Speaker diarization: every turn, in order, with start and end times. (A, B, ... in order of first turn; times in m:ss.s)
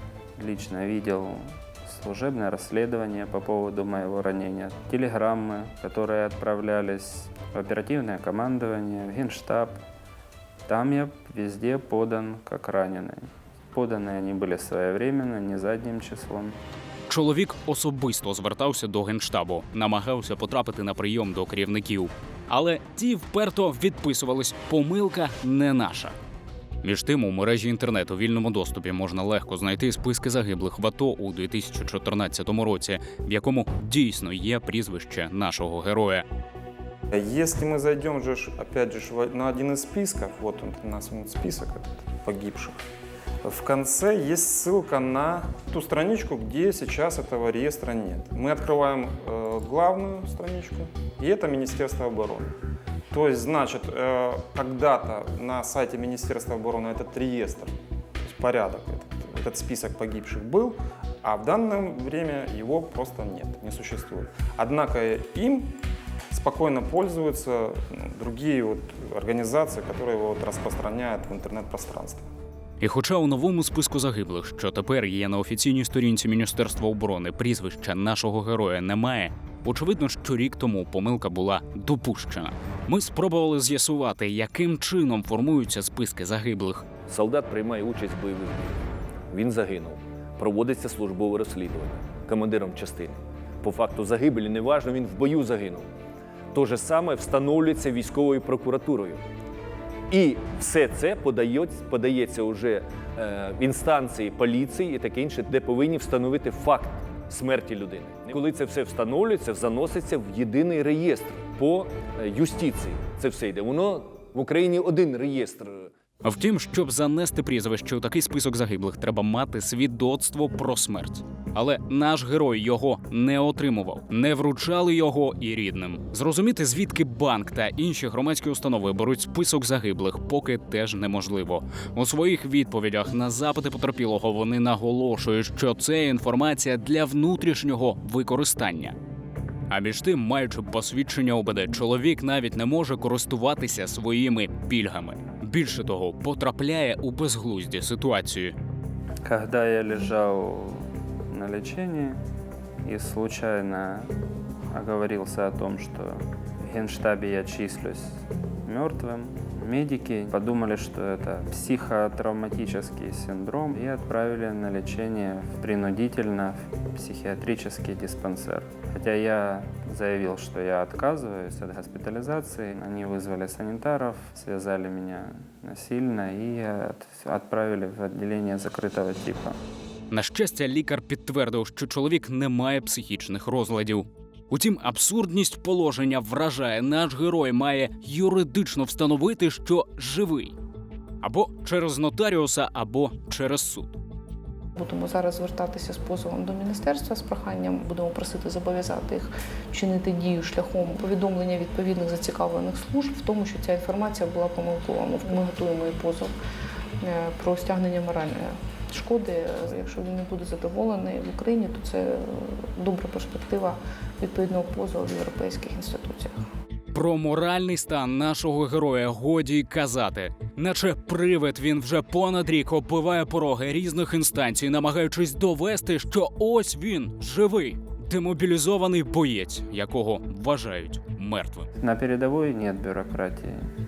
0:00.4-0:09.8 A
0:10.7-0:16.6 A
0:17.1-0:26.2 B
0:26.8-0:36.2 B
0:37.1-0:42.8 C
0:43.4-0:52.5 C
0:53.1-1:05.8 C
1:06.3-1:12.2 C
1:12.8-1:26.9 B
1:27.1-1:35.9 D
1:36.5-1:39.2 D
1:40.1-1:55.9 D
1:56.2-2:19.0 B
2:19.7-2:28.6 B
2:29.2-2:32.2 A
2:32.8-2:34.1 A
2:34.7-2:59.6 A
3:00.1-3:10.6 B
3:11.2-3:14.0 B
3:14.8-3:26.3 E
3:27.0-3:36.4 E
3:36.9-3:51.7 B
3:51.8-3:53.7 A